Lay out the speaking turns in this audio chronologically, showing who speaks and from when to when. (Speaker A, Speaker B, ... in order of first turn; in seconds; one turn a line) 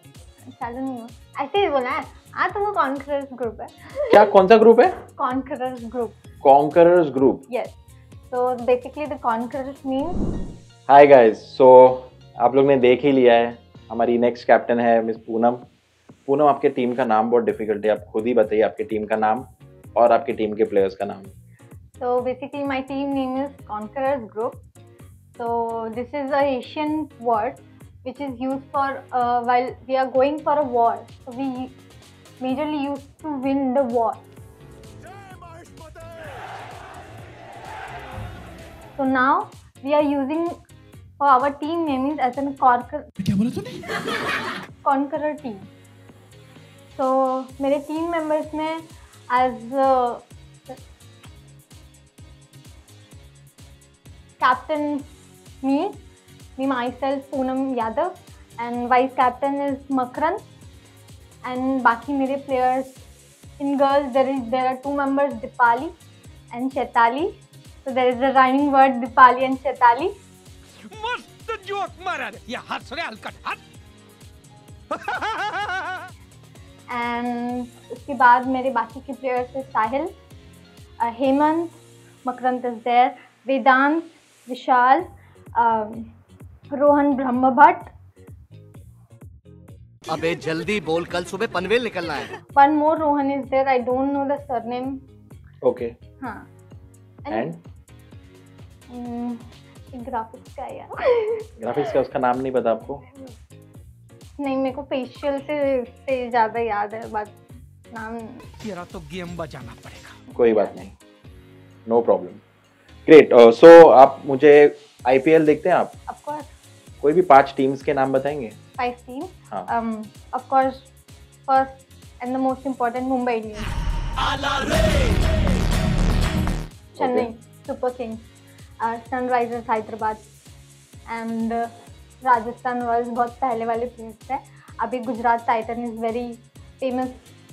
Speaker A: 0.5-4.2
Speaker B: 4.1-5.0
Speaker A: 5.2-6.2
Speaker B: 6.4-7.4
Speaker A: 7.5-7.8
Speaker A: 8.3-10.2
Speaker B: 10.9-15.6
Speaker B: 16.3-21.3
Speaker A: 22.0-24.6
Speaker A: 25.4-31.7
Speaker A: 32.4-34.2
Speaker A: 39.0-40.6
Speaker A: 41.2-43.1
Speaker C: 43.2-43.8
Speaker A: 44.8-45.6
Speaker A: 46.9-50.8
Speaker A: 54.4-55.1
Speaker A: 55.6-56.0
Speaker A: 56.6-60.4
Speaker A: 61.4-63.0
Speaker A: 63.6-65.9
Speaker A: 66.5-67.3
Speaker A: 67.8-70.1
Speaker C: 70.9-73.6
Speaker C: 74.9-76.1
Speaker A: 76.9-80.1
Speaker A: 81.0-85.0
Speaker A: 85.5-86.1
Speaker A: 86.7-87.9
Speaker D: 90.1-92.3
Speaker A: 92.5-95.0
Speaker B: 95.6-95.9
Speaker A: 96.2-96.5
Speaker A: 97.2-97.5
Speaker B: 97.3-97.6
Speaker A: 98.9-101.5
Speaker B: 101.6-103.0
Speaker A: 104.4-107.4
Speaker A: 107.9-108.5
Speaker C: 108.6-110.2
Speaker A: 110.3-110.7
Speaker B: 110.4-110.9
Speaker B: 111.9-112.4
Speaker B: 113.1-115.9
Speaker A: 116.1-116.5
Speaker B: 117.0-118.6
Speaker A: 118.8-120.9
Speaker A: 121.5-123.7
Speaker B: 127.0-127.3
Speaker A: 127.0-128.2
Speaker A: 128.8-130.2
Speaker A: 131.1-131.7
Speaker A: 132.2-137.3